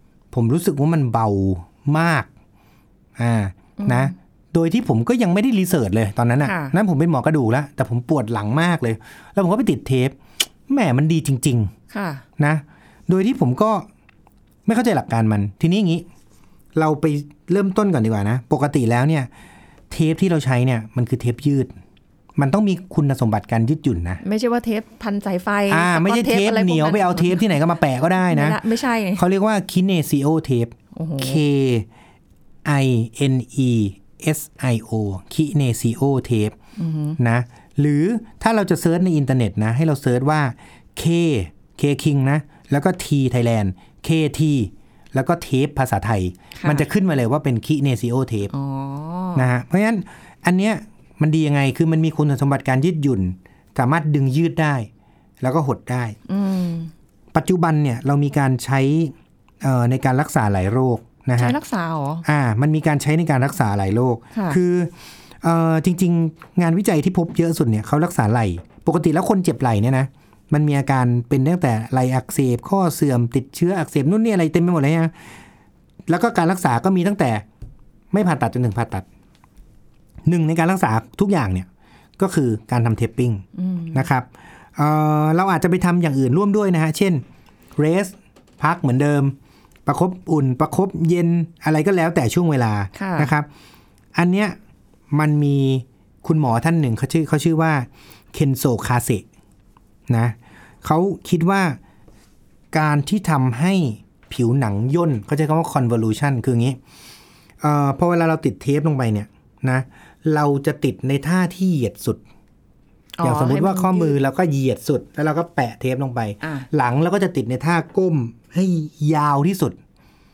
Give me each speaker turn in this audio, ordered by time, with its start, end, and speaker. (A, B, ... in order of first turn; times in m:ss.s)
0:00.3-0:02.3 A
0:03.2-0:10.2 A
0:03.8-0:04.1 B
0:06.4-0:06.8 B
0:10.7-0:11.7 A
0:11.9-0:12.2 B
0:12.4-0:13.9 A
0:14.7-0:16.1 A
0:16.8-0:19.3 A
0:19.9-0:21.7 A
0:22.4-0:24.2 A
0:24.2-0:27.5 B
0:25.7-0:28.6 A
0:28.2-0:29.2 B
0:29.2-0:31.9 A
0:31.0-0:31.4 B
0:32.6-0:36.6 A
0:36.8-0:37.2 B
0:37.2-0:48.5 A
0:46.6-0:46.9 B
0:48.5-0:49.4 B
0:49.4-0:54.9 A
0:55.4-0:56.2 A
0:56.3-0:56.9 B
0:57.3-1:01.6 A
1:01.4-1:02.2 B
1:02.2-1:15.1 A
1:04.3-1:04.6 B
1:16.1-1:17.4 A
1:18.1-1:19.1 A
1:20.2-1:21.7 A
1:22.2-1:27.2 A
1:23.6-1:24.0 B
1:27.8-1:29.4 A
1:29.9-1:33.5 A
1:33.0-1:33.3 B
1:34.2-1:34.6 A
1:35.1-1:39.2 A
1:40.1-1:41.8 A
1:42.7-1:46.8 A
1:47.6-1:52.2 A
1:53.2-1:54.2 B
1:53.2-1:59.8 A
1:56.4-1:56.7 B